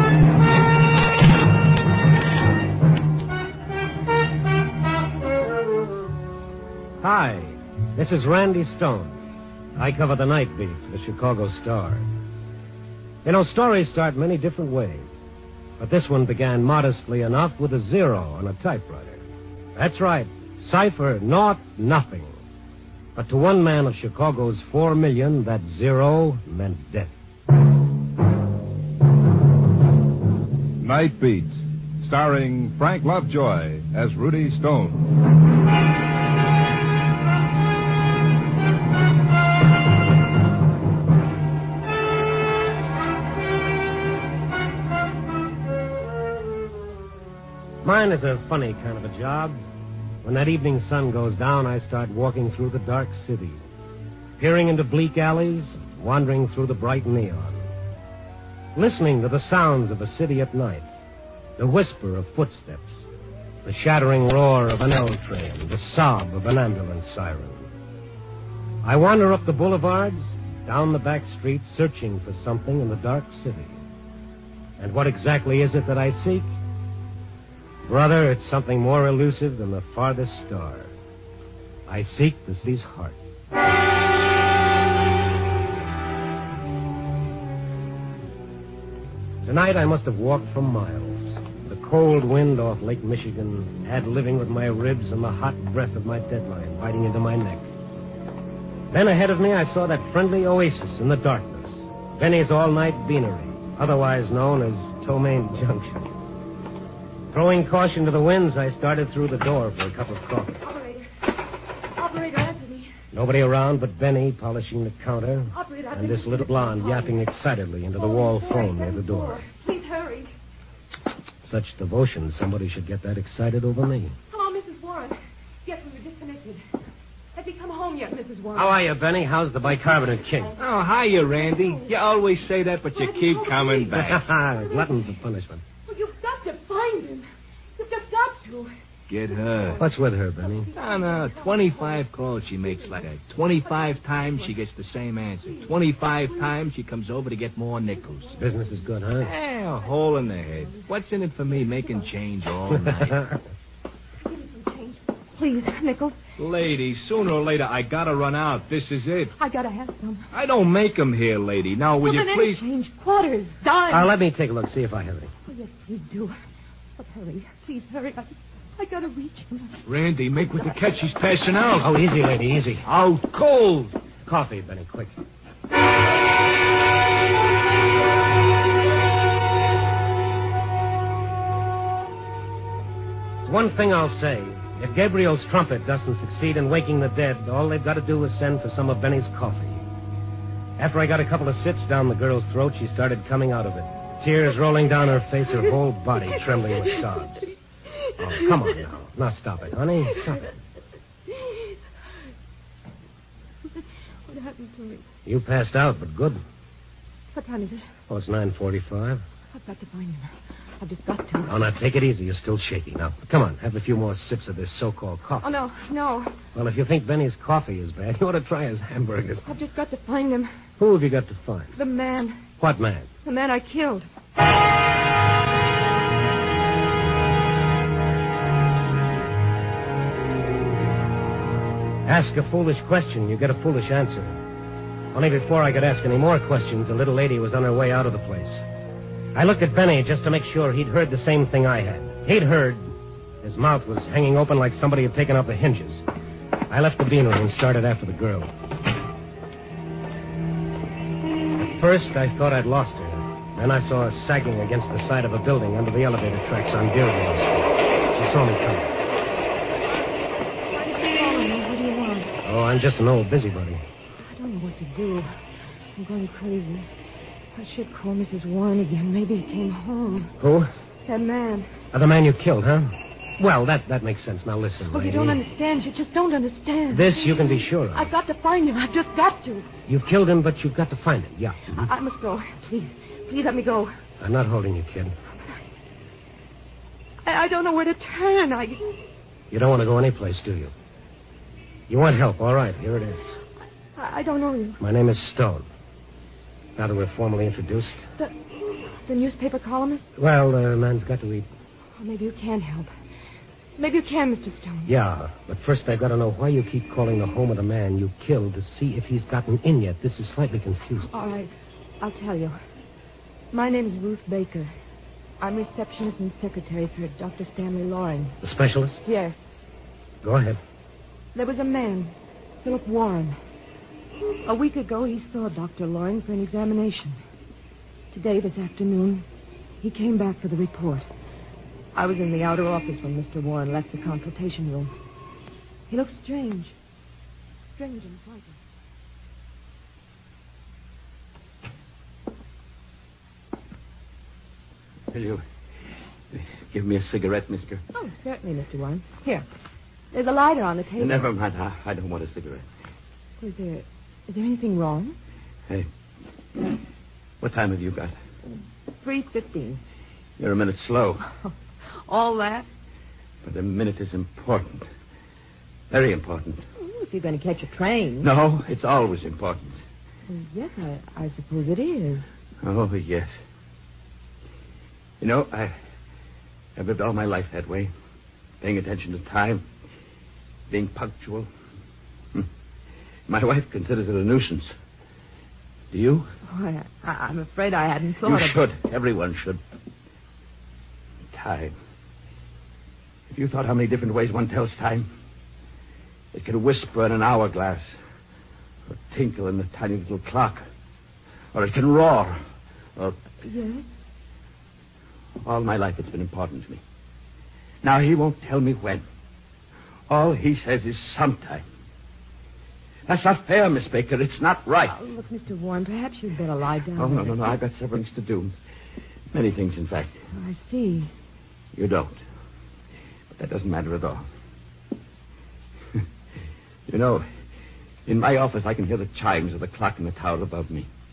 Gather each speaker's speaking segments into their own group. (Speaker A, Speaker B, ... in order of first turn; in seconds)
Speaker A: 7.0-9.2, 9.8-12.1, 13.2-15.2, 15.8-19.2, 19.8-22.4, 23.2-27.1, 47.8-49.6, 50.2-53.6, 54.4-57.7, 58.7-60.9, 61.6-63.0, 63.6-67.7, 68.8-73.8, 74.8-76.5, 77.8-80.9, 81.9-83.2, 89.4-97.7, 98.9-106.1, 107.3-110.6, 113.1-119.4, 121.4-124.1, 128.5-130.5, 133.9-135.6, 139.8-140.7, 148.4-149.3, 163.9-165.3, 171.8-172.8, 174.2-175.2, 183.4-189.8, 190.8-197.5, 198.2-200.5, 205.2-206.4, 208.1-209.2, 211.5-215.5, 216.5-219.5, 220.8-221.8, 222.6-223.1, 232.1-234.4, 235.1-238.6, 239.3-242.9, 243.4-246.0, 246.7-248.5, 251.6-258.9, 262.4-263.8, 270.4-270.7, 271.9-275.4, 276.9-278.1, 279.9-281.9, 284.2-285.1, 289.5-290.7, 291.9-293.3, 294.8-295.7, 296.8-298.1, 300.2-301.5, 304.9-311.1, 318.4-319.0, 320.2-320.6
Speaker B: 30.8-35.0
Speaker C: 110.6-111.0, 111.8-112.9, 115.5-117.2, 118.0-120.3, 124.3-126.6, 127.3-128.8, 131.1-132.0, 132.9-134.0, 135.9-138.7, 139.4-139.8, 140.4-142.1, 142.6-143.1, 143.6-144.6, 145.4-146.5, 147.9-148.5, 149.8-150.9, 151.7-152.1, 154.2-156.2, 159.3-160.3, 162.0-164.1, 165.4-166.3, 167.0-169.8, 198.0-198.5, 201.3-201.8, 203.7-205.0, 207.3-207.9, 209.5-211.5, 215.4-216.3, 219.4-220.5, 221.8-222.4, 223.2-224.1, 260.7-262.4, 264.2-265.3, 266.0-266.9, 267.6-270.4, 271.1-271.7, 274.8-279.7, 281.7-283.9, 287.2-288.9, 294.0-294.8, 299.0-300.1, 302.0-302.9, 303.8-304.9, 311.1-312.6, 313.5-314.7, 315.4-318.4, 319.1-319.4, 321.3-323.4, 324.4-327.2, 328.1-329.2, 329.8-331.1, 331.9-334.9, 335.9-336.8, 337.8-338.6, 347.9-349.4, 350.1-351.3, 353.4-355.2, 359.0-359.8, 362.1-362.7, 366.8-368.3, 370.3-372.2, 386.5-388.6, 403.4-403.9, 414.9-417.4, 420.3-421.1
Speaker D: 130.6-134.2, 139.1-139.8, 140.7-148.3, 149.2-153.3, 156.4-159.3, 160.3-162.6, 169.8-172.0, 172.8-173.9
Speaker E: 345.1-345.4, 346.3-347.8, 351.0-352.6, 357.4-358.1, 360.4-361.2, 363.4-364.9, 365.9-366.6, 368.2-369.8, 372.6-373.3, 375.2-375.8, 376.8-377.9, 378.6-379.7, 380.7-381.5, 383.3-384.7, 385.9-386.3, 388.2-389.6, 391.3-391.8, 393.3-395.1, 396.3-398.0, 398.9-400.6, 401.5-402.4, 403.0-403.2, 405.4-406.8, 407.8-409.1, 410.1-411.6, 413.1-415.0, 417.0-418.6, 419.3-420.2, 421.7-422.2, 423.4-424.2, 426.9-427.3, 428.1-430.9